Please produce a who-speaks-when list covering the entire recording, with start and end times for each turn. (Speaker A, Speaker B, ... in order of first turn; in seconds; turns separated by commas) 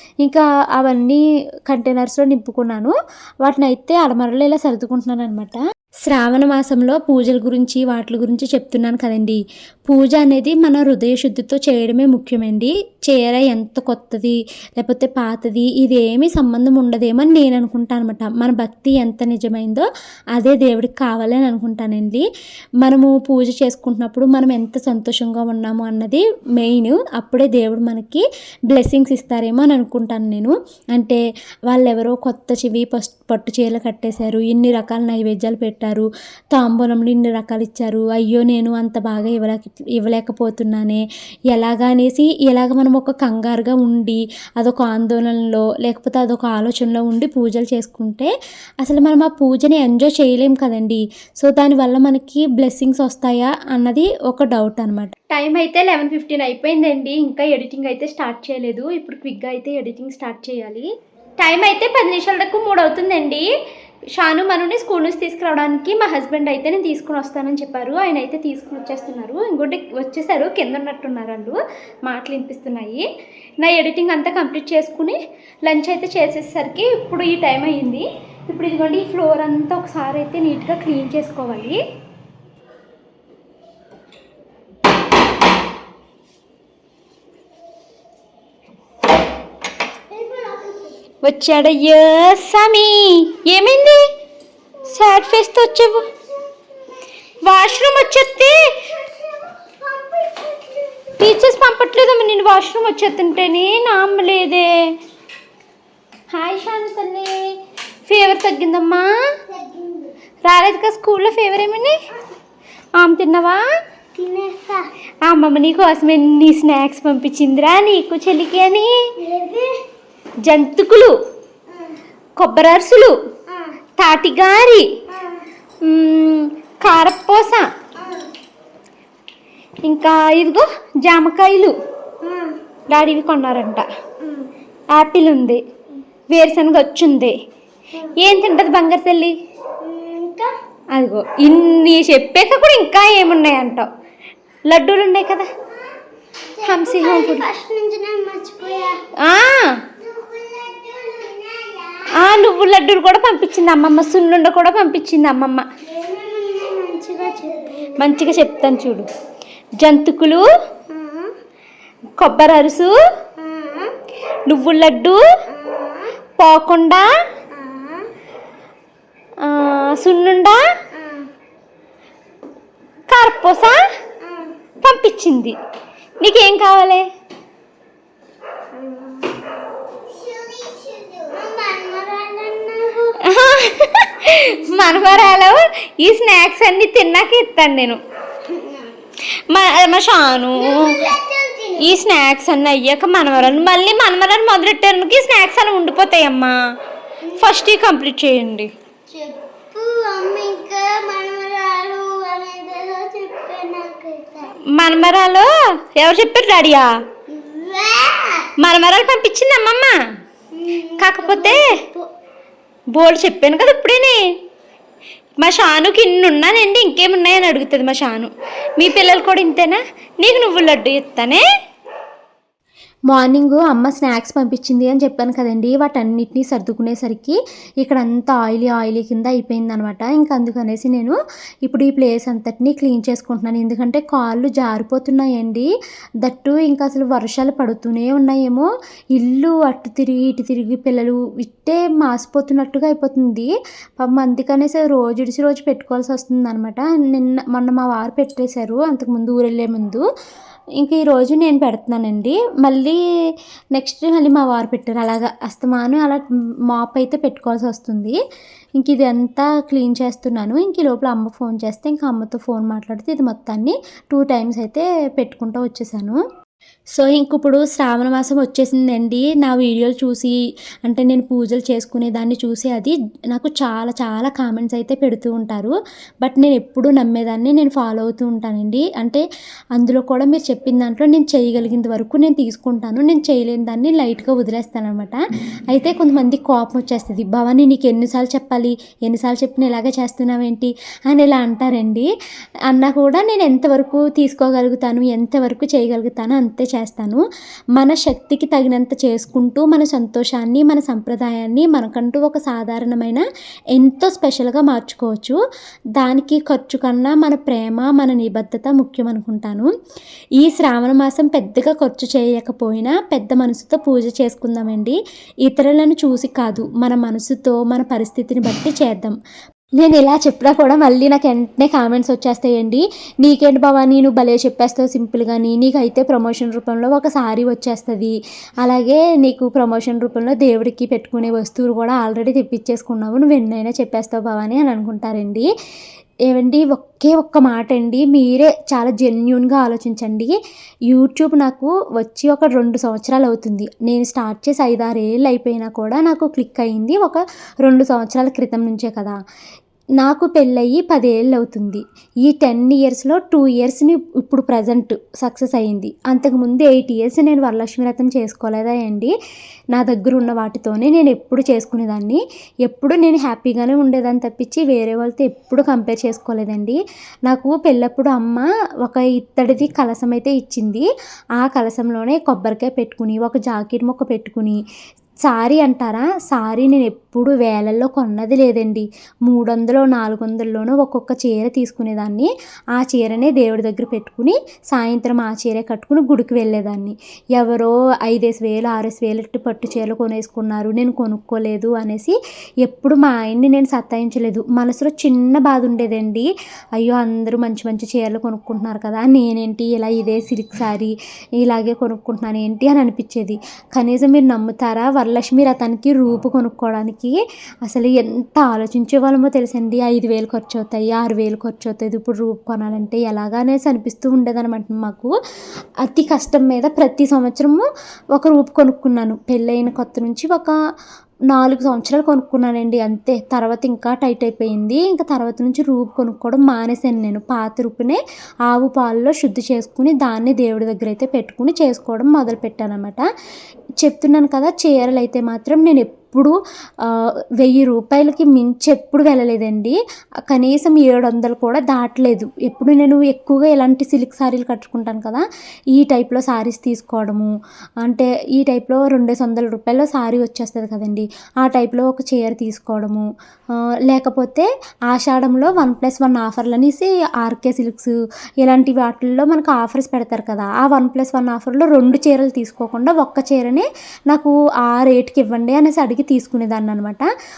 Speaker A: 0.2-22.2, Speaker A: 22.8-60.9, Speaker A: 61.4-63.5, Speaker A: 64.2-73.1, Speaker A: 73.6-81.8, Speaker B: 90.1-91.0, Speaker A: 91.2-94.1, Speaker A: 94.9-96.0, Speaker B: 94.9-97.0, Speaker A: 97.4-98.6, Speaker B: 97.7-101.3, Speaker A: 101.2-104.8, Speaker A: 106.3-107.5, Speaker A: 108.1-109.1, Speaker B: 109.5-110.1, Speaker A: 110.4-112.0, Speaker A: 113.0-113.6, Speaker B: 114.2-114.9, Speaker A: 115.2-119.0, Speaker B: 119.2-119.8, Speaker A: 120.4-121.2, Speaker B: 121.7-122.0, Speaker A: 122.4-123.2, Speaker B: 123.5-123.8, Speaker A: 124.0-124.9, Speaker B: 125.1-125.5, Speaker A: 125.8-127.7, Speaker B: 128.0-128.3, Speaker A: 129.8-131.8, Speaker B: 132.2-132.6, Speaker A: 132.9-133.8, Speaker B: 134.2-134.5, Speaker A: 134.9-135.6, Speaker A: 136.3-137.4, Speaker A: 138.2-139.3, Speaker B: 139.8-140.5, Speaker A: 140.9-143.9, Speaker A: 144.7-145.5, Speaker B: 146.5-149.0, Speaker A: 146.7-147.4, Speaker A: 149.2-149.8, Speaker B: 150.0-152.4, Speaker A: 152.2-155.7, Speaker B: 155.8-158.9, Speaker A: 158.0-159.1, Speaker A: 159.8-160.5, Speaker B: 160.9-161.3, Speaker A: 162.2-162.9, Speaker B: 163.4-163.9, Speaker A: 164.5-165.2, Speaker B: 165.5-166.2, Speaker A: 166.4-167.1, Speaker B: 167.5-168.1, Speaker A: 169.4-170.6, Speaker B: 170.9-171.3, Speaker A: 173.1-173.8, Speaker B: 174.2-174.5, Speaker A: 174.8-175.6, Speaker A: 176.2-177.1, Speaker B: 178.7-183.4, Speaker A: 183.2-188.0, Speaker B: 188.4-189.0, Speaker A: 189.5-191.0, Speaker B: 190.6-191.9, Speaker A: 191.8-196.6, Speaker B: 197.2-197.8, Speaker A: 197.4-198.7, Speaker B: 199.1-204.6, Speaker A: 204.7-207.0, Speaker B: 207.3-208.5, Speaker A: 208.6-209.9, Speaker B: 210.5-212.1, Speaker A: 211.0-211.8, Speaker A: 212.9-214.3, Speaker A: 215.4-221.4, Speaker A: 223.1-235.7, Speaker A: 236.2-250.1, Speaker A: 250.8-253.0, Speaker A: 253.7-258.2, Speaker A: 258.8-266.2, Speaker A: 266.9-279.2, Speaker A: 279.8-285.2, Speaker A: 285.7-292.1, Speaker A: 292.7-297.2, Speaker A: 297.8-303.2, Speaker A: 303.8-305.4, Speaker A: 306.0-309.7, Speaker A: 310.4-319.1, Speaker A: 319.8-335.5, Speaker A: 336.3-340.4, Speaker A: 340.9-349.1, Speaker A: 350.0-359.1, Speaker A: 359.7-370.9, Speaker A: 371.4-374.6, Speaker A: 375.2-415.1, Speaker A: 415.8-420.6, Speaker A: 421.3-433.1, Speaker A: 433.8-439.8, Speaker A: 440.3-447.3, Speaker A: 447.8-453.1, Speaker A: 453.9-467.1